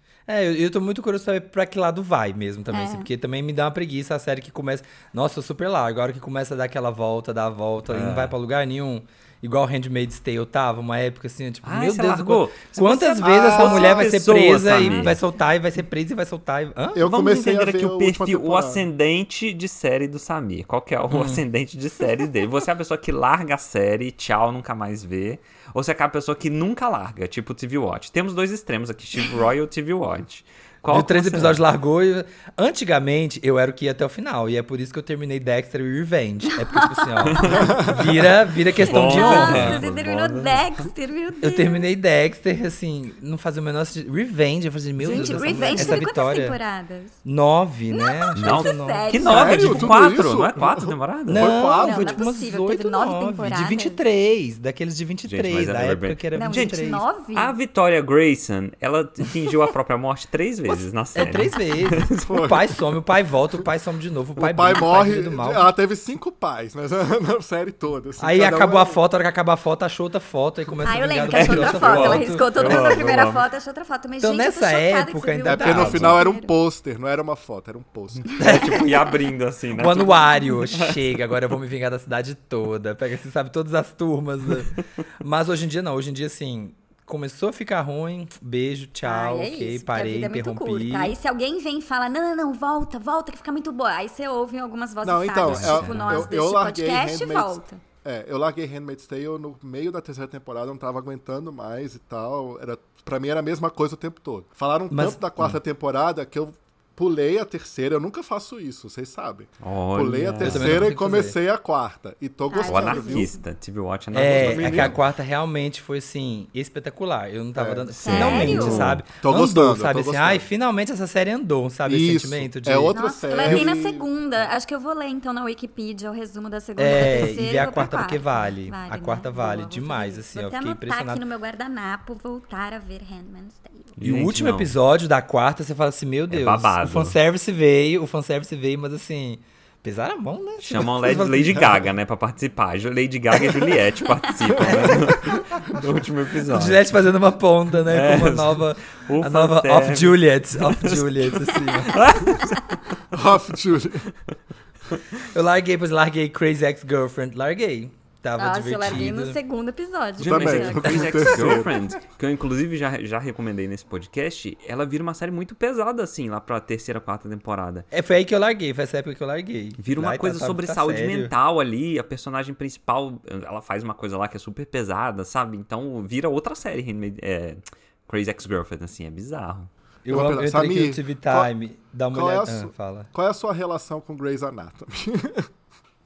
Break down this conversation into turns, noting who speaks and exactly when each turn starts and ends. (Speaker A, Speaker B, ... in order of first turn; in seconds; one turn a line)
Speaker A: 0.3-17.1
Speaker B: 2.7-3.1
Speaker C: 7.9-8.3
Speaker C: 11.6-15.2
Speaker D: 13.2-14.1
Speaker B: 14.8-15.1
Speaker D: 16.9-18.8
Speaker C: 17.1-31.6
Speaker A: 21.1-21.4
Speaker A: 30.9-39.8
Speaker B: 36.5-37.7
Speaker C: 37.3-37.7
Speaker D: 37.6-38.0
Speaker C: 38.8-40.7
Speaker B: 38.8-41.9
Speaker A: 41.4-46.6
Speaker C: 45.0-46.0
Speaker B: 45.1-47.2
Speaker A: 47.2-50.0
Speaker B: 47.9-49.6
Speaker C: 48.4-51.6
Speaker D: 49.2-52.2
Speaker A: 51.3-57.0
Speaker B: 51.7-54.0
Speaker C: 55.3-56.7
Speaker B: 56.3-57.5
Speaker C: 57.3-62.5
Speaker A: 60.7-65.7
Speaker D: 62.2-62.6
Speaker D: 64.4-69.0
Speaker A: 68.2-73.0
Speaker B: 70.8-76.5
Speaker C: 71.3-73.5
Speaker A: 74.2-76.2
Speaker D: 75.5-78.3
Speaker C: 78.3-81.0
Speaker A: 78.4-79.0
Speaker A: 79.7-91.2
Speaker B: 89.0-97.8
Speaker D: 95.0-113.3
Speaker C: 95.4-96.3
Speaker A: 104.9-105.6
Speaker C: 109.6-110.9
Speaker A: 110.4-111.4
Speaker B: 112.5-113.4
Speaker C: 112.7-115.0
Speaker A: 114.1-123.7
Speaker D: 114.3-115.0
Speaker D: 117.6-118.7
Speaker B: 118.0-118.9
Speaker C: 118.0-119.0
Speaker D: 119.2-120.5
Speaker D: 121.9-124.1
Speaker B: 122.9-133.9
Speaker A: 126.8-131.2
Speaker C: 134.0-134.7
Speaker A: 134.0-141.8
Speaker C: 136.3-137.2
Speaker C: 140.6-146.8
Speaker D: 144.6-145.2
Speaker A: 144.6-145.4
Speaker A: 146.5-152.3
Speaker C: 147.9-151.3
Speaker C: 151.9-152.6
Speaker D: 153.1-154.1
Speaker A: 155.3-159.4
Speaker B: 158.4-161.4
Speaker D: 160.2-161.9
Speaker C: 160.2-167.9
Speaker A: 167.9-171.3
Speaker C: 169.8-179.7
Speaker A: 180.1-183.1
Speaker D: 180.1-181.5
Speaker D: 182.1-185.5